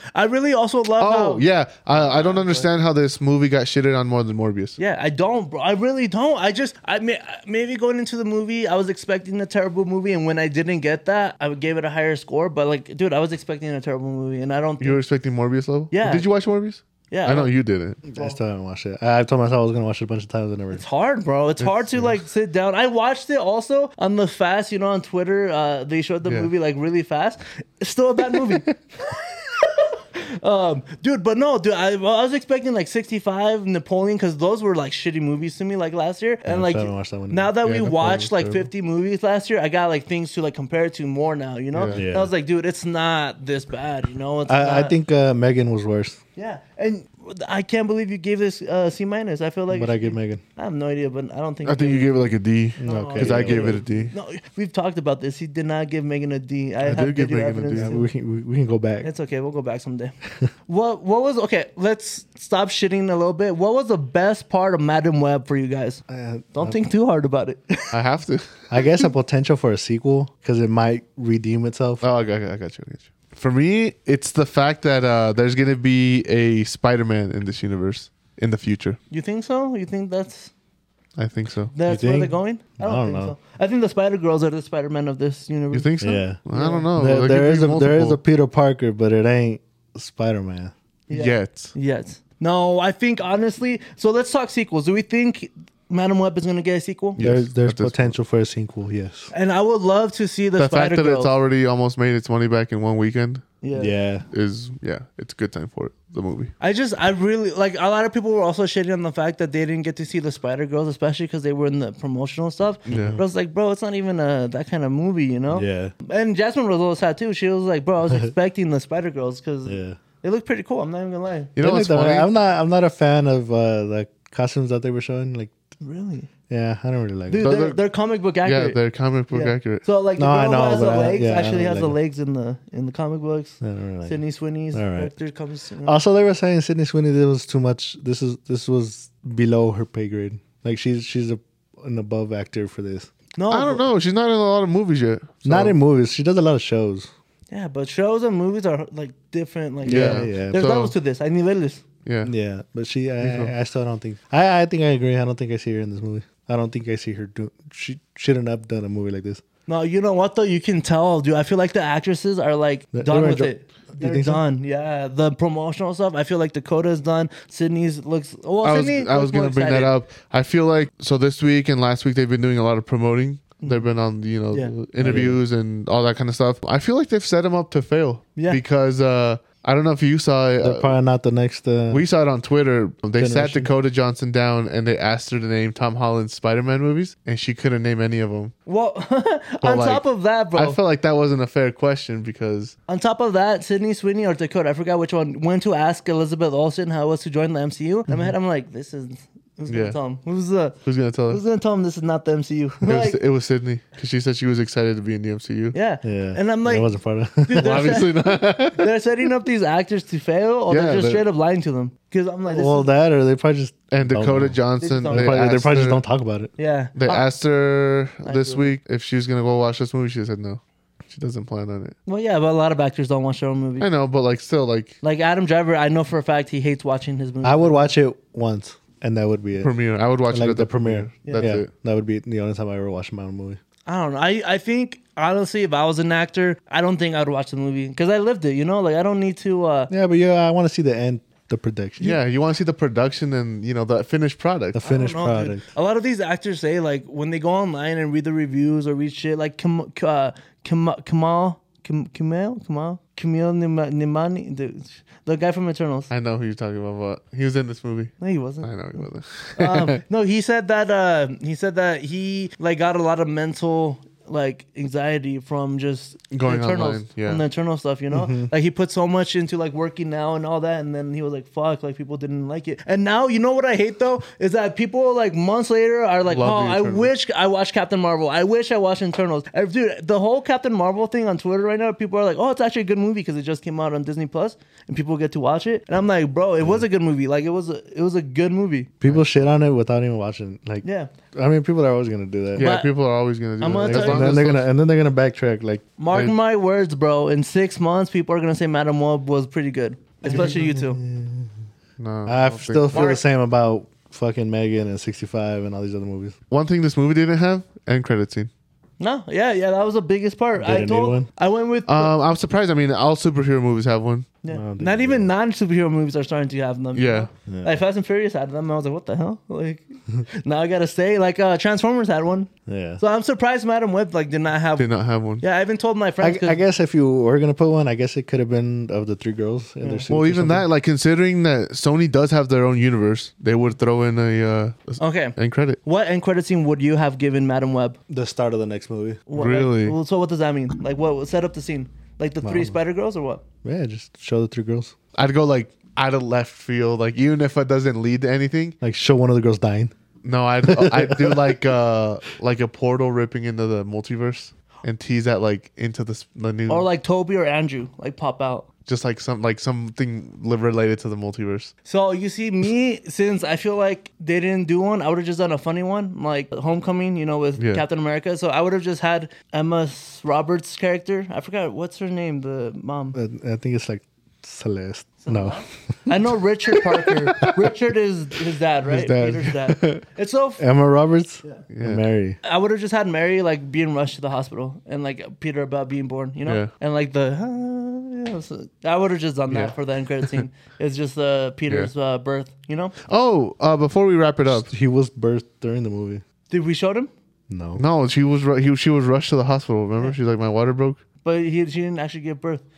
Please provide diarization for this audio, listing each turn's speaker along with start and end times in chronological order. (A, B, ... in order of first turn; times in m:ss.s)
0:00.2-0:02.7 A
0:01.0-0:04.8 B
0:04.8-0:15.0 A
0:14.8-0:18.0 B
0:15.9-0:16.3 A
0:17.1-0:17.5 A
0:18.0-0:20.8 C
0:20.7-0:45.0 A
0:21.6-0:22.2 B
0:26.2-0:26.5 B
0:36.5-0:37.5 C
0:37.6-0:38.7 B
0:41.7-0:42.0 B
0:41.9-0:42.3 C
0:44.5-0:46.2 C
0:46.4-0:52.2 A
0:49.7-0:50.4 C
0:51.6-0:54.1 B
0:52.8-0:53.8 C
0:52.8-0:58.1 A
0:56.8-0:57.9 B
0:57.7-0:59.1 C
0:59.0-1:00.2 A
1:00.7-1:06.0 A
1:06.1-1:06.8 C
1:06.6-1:08.0 A
1:07.9-1:08.6 B
1:08.7-1:12.0 C
1:12.0-1:19.0 B
1:19.1-1:20.5 A
1:21.2-1:21.7 B
1:21.7-1:25.9 A
1:21.8-1:23.4 C
1:25.7-1:28.2 B
1:26.0-1:26.4 C
1:26.5-1:26.9 A
1:26.9-1:30.7 C
1:31.1-1:37.2 A
1:31.1-1:31.8 B
1:37.2-1:38.2 B
1:37.2-1:39.3 C
1:39.3-1:41.4 A
1:40.6-1:43.5 B
1:43.6-1:44.0 A
1:43.8-1:44.3 C
1:44.3-1:46.5 B
1:46.6-2:01.5 A
1:52.9-1:53.2 B
1:52.9-1:53.2 C
1:55.5-1:55.9 C
1:59.7-2:00.0 C
2:01.6-2:02.3 B
2:01.6-2:05.5 C
2:05.8-2:06.3 A
2:06.5-2:07.5 C
2:07.3-2:08.8 A
2:07.4-2:07.8 B
2:08.4-2:09.8 B
2:09.3-2:16.0 A
2:10.2-2:12.0 C
2:13.6-2:14.2 C
2:14.7-2:15.1 C
2:15.8-2:23.1 C
2:23.4-2:23.8 A
2:23.5-2:25.8 B
2:25.4-2:27.1 C
2:27.5-2:31.8 A
2:29.8-2:30.6 C
2:29.8-2:31.0 B
2:32.0-2:32.3 B
2:32.2-2:39.4 C
2:33.2-2:33.5 B
2:39.7-2:49.9 A
2:42.9-2:44.4 C
2:48.6-3:00.9 B
2:53.6-2:53.9 A
2:55.0-2:55.4 C
3:00.6-3:02.0 C
3:01.9-3:08.5 B
3:03.2-3:03.7 C
3:08.7-3:10.8 A
3:09.6-3:12.8 B
3:12.9-3:20.8 A
3:19.7-3:20.0 B
3:20.8-3:21.4 B
3:21.3-3:23.2 A
3:22.8-3:25.8 B
3:25.7-3:26.9 A
3:26.0-3:28.1 C
3:27.4-3:32.9 A
3:27.6-3:28.9 B
3:30.7-3:31.2 B
3:32.5-3:36.5 C
3:33.9-3:36.0 B
3:34.8-3:35.4 A
3:36.6-3:37.3 A
3:37.0-3:42.0 B
3:38.2-3:38.7 A
3:42.1-3:43.9 A
3:43.8-3:45.0 B
3:45.0-3:47.9 A
3:47.4-3:49.7 C
3:49.6-3:51.7 B
3:50.3-3:53.6 C
3:53.9-3:59.9 A
3:59.9-4:02.2 C
4:02.0-4:04.8 B
4:04.7-4:05.6 C
4:04.8-4:16.1 A
4:16.1-4:20.0 B
4:18.2-4:19.0 A
4:19.6-4:48.9 A
4:26.3-4:27.4 B
4:28.1-4:28.5 C
4:36.3-4:37.1 B
4:49.0-4:52.7 C
4:50.8-4:51.1 A
4:52.6-4:54.7 B
4:52.6-4:52.9 A
4:53.6-4:54.4 A
4:53.8-4:55.8 C
4:56.0-5:01.0 A
5:00.2-5:01.5 C
5:02.0-5:03.1 B
5:02.3-5:06.4 C
5:02.9-5:03.2 A
5:06.5-5:08.5 B
5:09.0-5:12.1 A
5:10.6-5:11.3 C
5:11.9-5:14.3 B
5:14.4-5:26.6 A
5:14.5-5:15.3 C
5:17.0-5:17.3 B
5:22.7-5:23.0 C
5:24.8-5:25.4 B
5:26.2-5:30.7 C
5:30.1-5:35.8 B
5:35.0-5:38.0 A
5:38.1-5:39.2 C
5:39.3-5:43.4 A
5:39.4-5:40.0 B
5:42.4-5:42.8 C
5:43.6-5:44.9 C
5:45.2-5:48.8 B
5:48.8-5:49.9 C
5:50.2-5:56.9 B
5:50.6-5:51.7 C
5:56.7-5:58.7 A
5:58.9-6:01.7 B
6:01.9-6:13.2 A
6:07.6-6:07.8 B
6:13.1-6:15.6 C
6:15.2-6:20.6 A
6:17.1-6:17.6 B
6:18.9-6:20.0 B
6:20.6-6:22.4 C
6:21.7-6:22.0 B
6:22.4-6:33.0 A
6:29.5-6:30.4 B
6:33.0-6:34.7 B
6:34.5-6:36.2 C
6:36.5-6:37.1 A
6:37.5-6:37.8 C
6:37.8-6:41.0 B
6:41.2-6:42.6 A